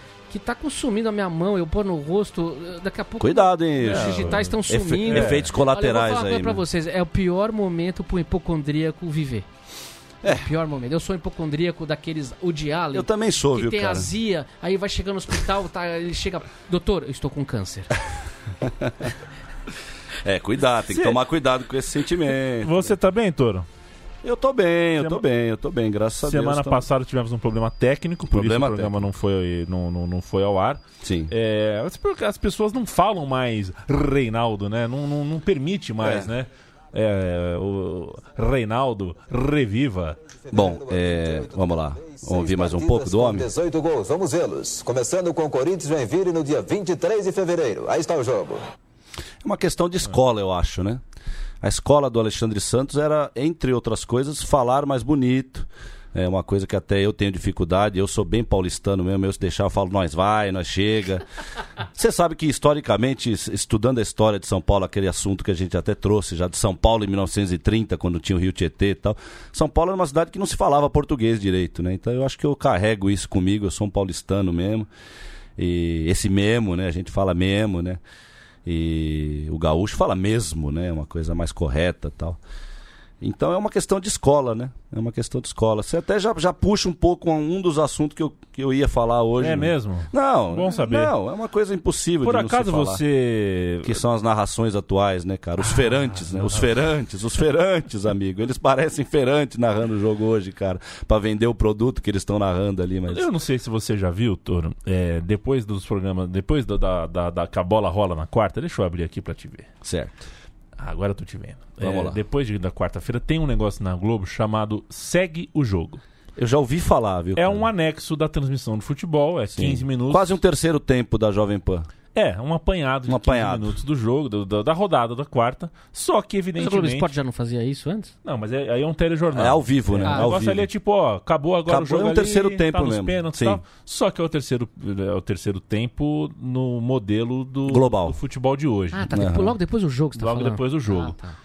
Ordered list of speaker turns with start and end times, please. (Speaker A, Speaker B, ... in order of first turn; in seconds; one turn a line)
Speaker A: 0.3-9.4
Speaker B: 3.2-6.6
Speaker C: 3.9-5.5
Speaker A: 10.2-17.9
Speaker B: 12.9-14.1
Speaker B: 18.6-19.1
Speaker B: 20.2-23.0
Speaker C: 20.9-21.2
Speaker C: 22.6-23.7
Speaker B: 24.2-26.9
Speaker C: 26.2-40.2
Speaker B: 28.3-29.1
Speaker B: 31.0-31.3
Speaker B: 36.0-36.3
Speaker D: 40.5-48.6
Speaker B: 40.5-43.5
Speaker B: 49.4-51.0
Speaker B: 51.6-61.2
Speaker B: 61.9-74.9
Speaker B: 75.6-78.0
Speaker B: 78.7-82.4
Speaker B: 83.2-93.0
Speaker C: 89.4-91.1
Speaker C: 92.2-94.0
Speaker B: 93.8-103.3
Speaker C: 95.6-96.7
Speaker C: 103.1-109.7
Speaker B: 109.8-110.3
Speaker C: 110.8-116.0
Speaker B: 111.8-112.2
Speaker B: 116.4-117.7
Speaker C: 117.4-120.3
Speaker B: 119.5-121.9
Speaker C: 122.1-127.1
Speaker B: 123.1-123.8
Speaker A: 126.6-128.1
Speaker C: 128.2-139.1
Speaker B: 129.3-130.7
Speaker B: 131.7-133.6
Speaker B: 137.7-138.2
Speaker A: 138.9-141.4
Speaker B: 139.1-139.6
Speaker C: 140.2-141.1